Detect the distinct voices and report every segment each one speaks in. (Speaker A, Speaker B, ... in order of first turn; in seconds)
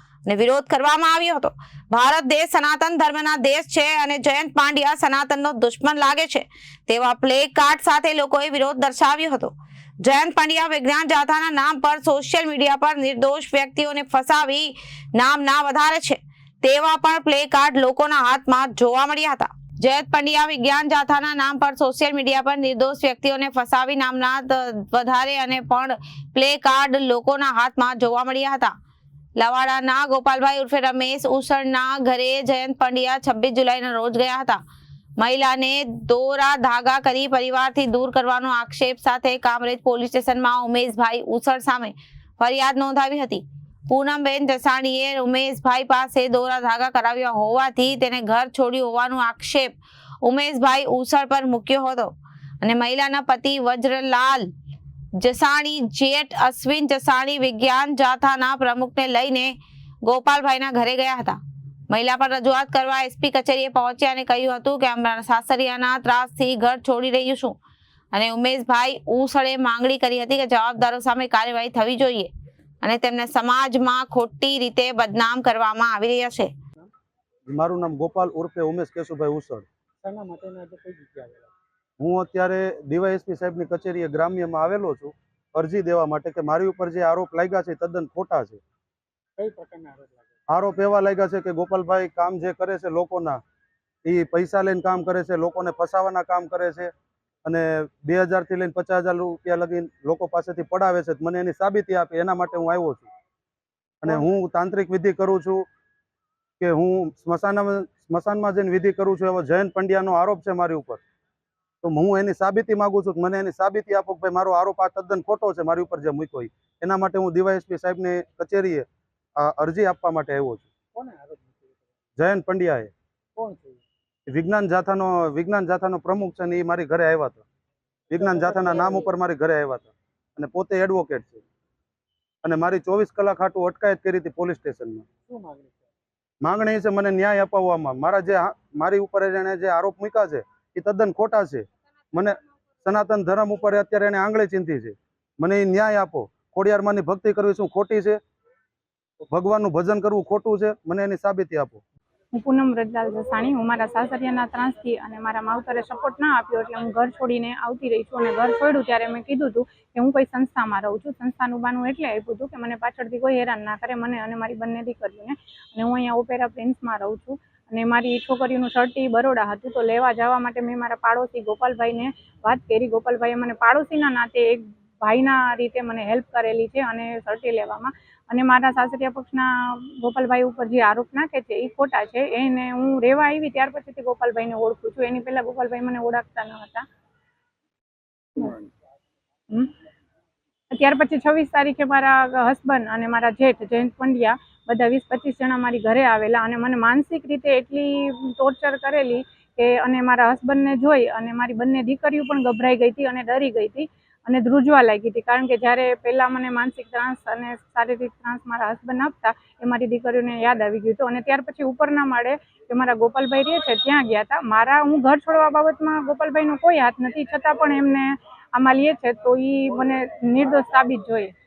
Speaker A: 0.2-28.7, 29.4-34.6, 35.2-49.7, 50.2-54.5, 55.2-61.4, 61.9-67.6, 68.1-72.3, 72.8-76.5
Speaker B: 77.5-79.7, 82.0-88.6, 90.5-93.4, 94.0-96.9, 97.4-103.1, 104.0-105.7, 106.6-111.0, 111.8-118.8, 119.4-120.7, 122.2-122.9, 124.3-127.4, 128.1-131.4, 132.4-135.0, 136.4-148.2, 149.3-151.8
Speaker C: 80.0-81.5, 89.4-90.3, 120.9-121.8, 123.3-123.8, 128.1-129.1, 135.3-135.8
Speaker D: 152.3-186.8, 190.7-221.3